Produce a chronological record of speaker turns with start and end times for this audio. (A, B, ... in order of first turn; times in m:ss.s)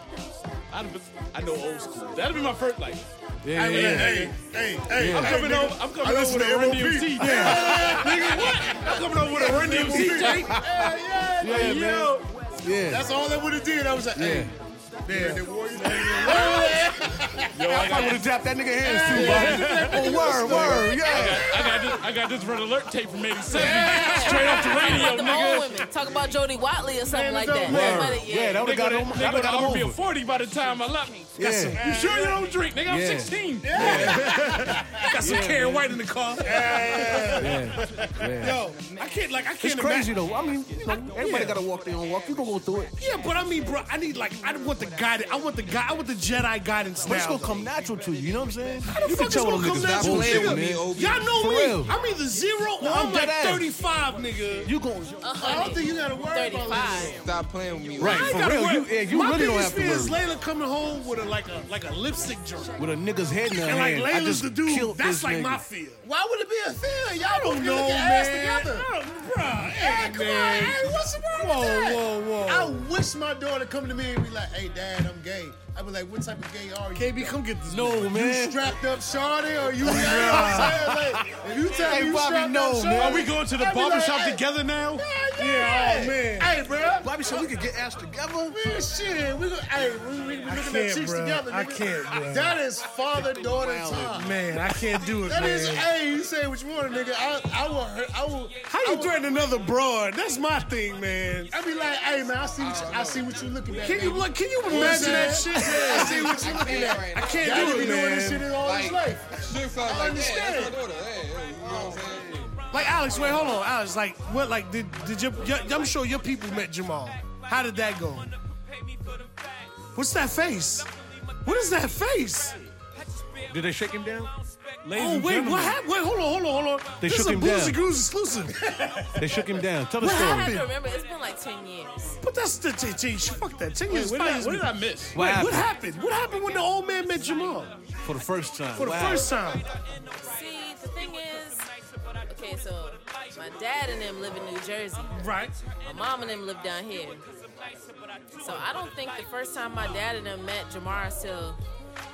0:00.7-0:04.4 A
0:03.4-0:04.3 B
0:03.5-0:11.9 C
0:04.9-0:05.5 B
0:05.1-0:10.6 A
0:07.2-0:08.0 D
0:09.7-0:13.1 B
0:11.5-0:12.3 A
0:12.8-0:18.0 C
0:14.1-0:14.5 B
0:15.1-0:15.4 D
0:15.7-0:16.8 A
0:16.3-0:16.8 E
0:17.5-0:18.3 A
0:17.7-0:21.5 B
0:18.8-0:21.8 C
0:19.1-0:20.4 D
0:20.4-0:25.9 A
0:21.1-0:22.0 E
0:23.5-0:24.4 C
0:23.6-0:28.7 E
0:24.0-0:25.0 D
0:27.1-0:28.0 C
0:27.5-0:28.0 D
0:27.6-0:30.0 B
0:28.6-0:34.4 A
0:31.4-0:31.8 B
0:31.4-0:32.3 D
0:31.8-0:32.3 C
0:32.9-0:34.4 B
0:33.6-0:35.1 C
0:33.8-0:40.2 D
0:35.2-0:36.0 A
0:36.4-0:37.8 C
0:37.4-0:38.6 B
0:39.6-0:42.9 B
0:41.2-0:41.6 D
0:43.0-0:47.7 D
0:47.0-0:51.9 B
0:48.8-0:54.7 D
0:49.7-0:51.4 F
0:52.8-0:53.7 B
0:54.6-0:55.2 B
0:55.2-0:57.2 E
0:55.3-0:57.2 C
0:57.1-0:58.4 F
0:58.0-1:00.2 B
0:58.0-1:02.8 D
0:58.1-0:58.3 E
1:02.8-1:05.6 B
1:03.6-1:06.0 D
1:06.0-1:08.9 C
1:07.2-1:12.9 D
1:09.6-1:17.4 C
1:17.0-1:18.2 D
1:17.7-1:18.6 B
1:18.1-1:24.4 C
1:19.8-1:20.9 D
1:19.8-1:23.3 B
1:21.6-1:22.3 D
1:23.0-1:25.0 A
1:25.0-1:27.5 C
1:25.4-1:26.5 D
1:27.0-1:28.6 B
1:28.5-1:34.4 C
1:30.5-1:32.6 D
1:33.2-1:34.3 B
1:34.1-1:35.9 D
1:35.2-1:39.2 C
1:38.7-1:41.5 D
1:41.5-1:50.8 C
1:42.6-1:43.4 F
1:43.8-1:48.5 D
1:45.8-1:48.0 F
1:48.5-1:52.6 F
1:51.6-1:52.0 C
1:52.7-1:58.3 D
2:00.0-2:00.9 D
2:01.4-2:02.6 D
2:03.5-2:04.3 B
2:04.8-2:05.8 A
2:04.9-2:09.2 D
2:07.0-2:07.8 B
2:09.1-2:10.6 B
2:10.0-2:10.7 D
2:10.0-2:12.2 E
2:12.2-2:17.7 D
2:13.9-2:15.2 A
2:15.1-2:15.7 B
2:18.0-2:19.3 B
2:18.8-2:19.7 D
2:20.1-2:21.7 E
2:22.3-2:27.2 E
2:25.1-2:25.5 D
2:28.3-2:31.6 E